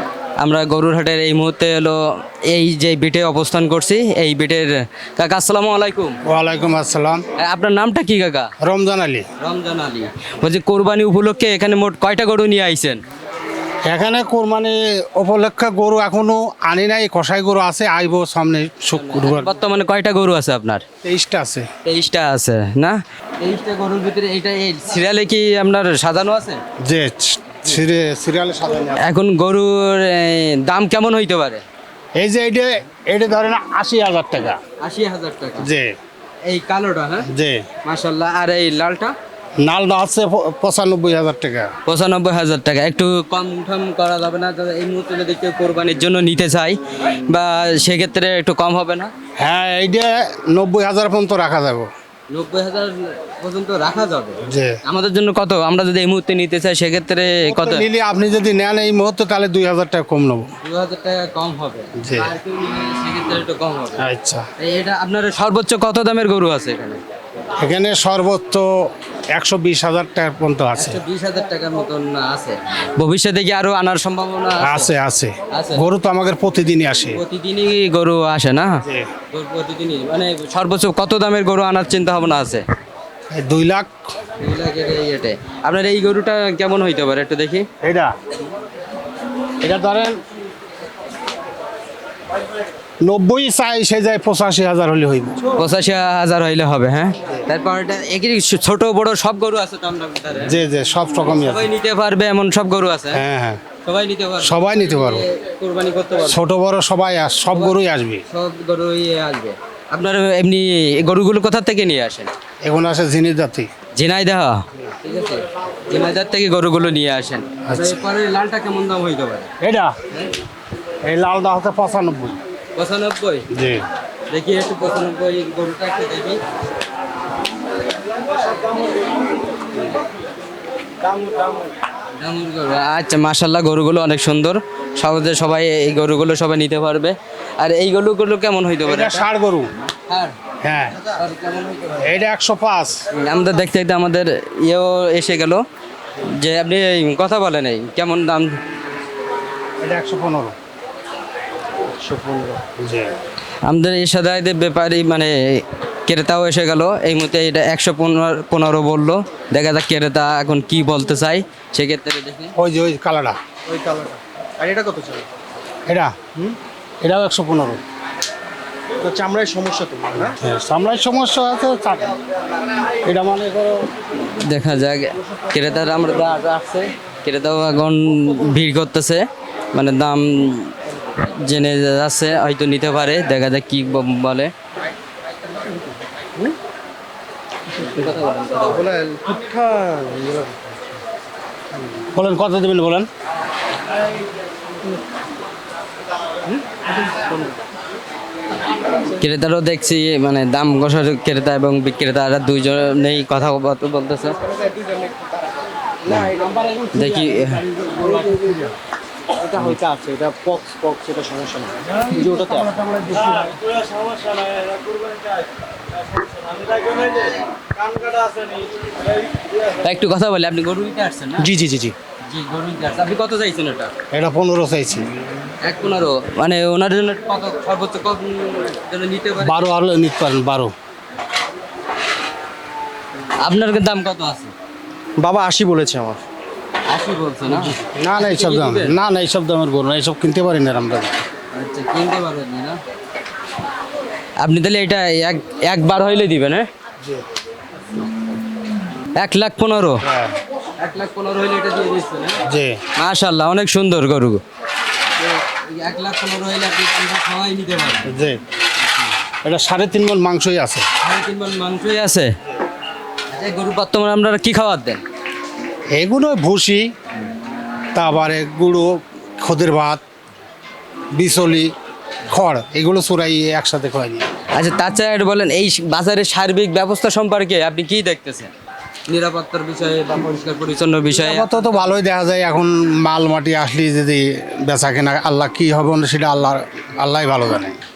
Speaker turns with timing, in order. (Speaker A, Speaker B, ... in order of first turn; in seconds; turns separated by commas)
Speaker A: 0.4-6.2, Speaker B: 6.2-7.2, Speaker A: 7.4-8.5, Speaker B: 8.6-9.3, Speaker A: 9.4-13.0, Speaker B: 13.8-19.6, Speaker A: 18.9-20.8, Speaker B: 21.0-21.7, Speaker A: 21.9-26.6, Speaker B: 26.8-29.1, Speaker A: 29.0-31.6, Speaker B: 32.2-34.6, Speaker A: 34.8-35.7, Speaker B: 35.6-36.0, Speaker A: 36.4-37.3, Speaker B: 37.3-37.7, Speaker A: 37.9-39.1, Speaker B: 39.6-41.7, Speaker A: 41.9-49.1, Speaker B: 49.4-51.9, Speaker A: 52.3-57.9, Speaker B: 54.5-54.8, Speaker B: 57.5-60.5, Speaker A: 60.6-64.0, Speaker B: 62.0-62.4, Speaker B: 64.0-64.5, Speaker A: 64.6-67.0, Speaker B: 67.6-71.0, Speaker A: 70.8-74.9, Speaker B: 74.6-77.2, Speaker A: 75.5-75.9, Speaker A: 77.1-82.6, Speaker B: 83.3-83.9, Speaker A: 84.4-87.7, Speaker B: 87.8-88.1, Speaker B: 89.6-90.2, Speaker B: 93.0-95.4, Speaker A: 95.5-100.6, Speaker B: 100.4-101.7, Speaker A: 101.2-103.2, Speaker B: 103.1-103.6, Speaker A: 103.8-106.4, Speaker B: 104.4-105.3, Speaker B: 106.3-108.2, Speaker A: 107.5-112.3, Speaker B: 112.6-113.7, Speaker A: 114.0-119.5, Speaker B: 117.7-118.0, Speaker B: 119.6-120.0, Speaker B: 121.0-122.4, Speaker A: 122.8-123.5, Speaker B: 123.5-123.8, Speaker A: 124.3-126.4, Speaker C: 131.0-131.8, Speaker A: 132.2-139.3, Speaker B: 138.8-139.7, Speaker A: 140.1-140.3, Speaker B: 140.6-141.0, Speaker A: 141.0-142.2, Speaker B: 142.0-143.0, Speaker A: 143.1-145.6, Speaker A: 146.2-148.6, Speaker B: 149.8-150.6, Speaker C: 151.8-152.6, Speaker B: 152.8-153.1, Speaker A: 153.6-162.6, Speaker B: 162.6-163.4, Speaker C: 163.7-165.3, Speaker B: 165.9-166.2, Speaker B: 167.0-167.8, Speaker C: 169.0-170.4, Speaker B: 170.4-172.2, Speaker B: 173.0-173.9, Speaker A: 174.3-184.5, Speaker A: 187.7-188.9, Speaker C: 187.7-190.9, Speaker B: 192.1-193.1, Speaker C: 196.5-197.6, Speaker A: 199.1-204.4, Speaker C: 204.5-205.5, Speaker C: 206.1-208.7, Speaker A: 206.9-207.7, Speaker C: 209.4-215.2, Speaker B: 212.8-213.4, Speaker C: 216.3-218.9, Speaker A: 219.8-221.5, Speaker C: 221.4-221.9, Speaker A: 222.3-223.9, Speaker B: 224.1-225.1, Speaker A: 225.6-229.7, Speaker B: 229.4-230.7, Speaker A: 233.4-234.5, Speaker C: 235.2-236.2, Speaker A: 236.9-239.0, Speaker B: 237.7-241.2, Speaker A: 241.5-242.8, Speaker A: 244.4-246.7, Speaker A: 249.2-250.0, Speaker B: 250.0-250.3, Speaker A: 250.8-252.4, Speaker B: 252.5-252.8, Speaker A: 253.0-254.4, Speaker A: 255.2-258.1, Speaker B: 258.1-258.4, Speaker B: 259.4-260.9, Speaker A: 261.0-262.3, Speaker A: 263.3-265.0, Speaker B: 265.9-266.9, Speaker B: 267.9-270.0, Speaker B: 271.1-271.7, Speaker B: 272.3-274.3, Speaker A: 274.6-278.5, Speaker A: 279.1-281.9, Speaker B: 281.1-287.8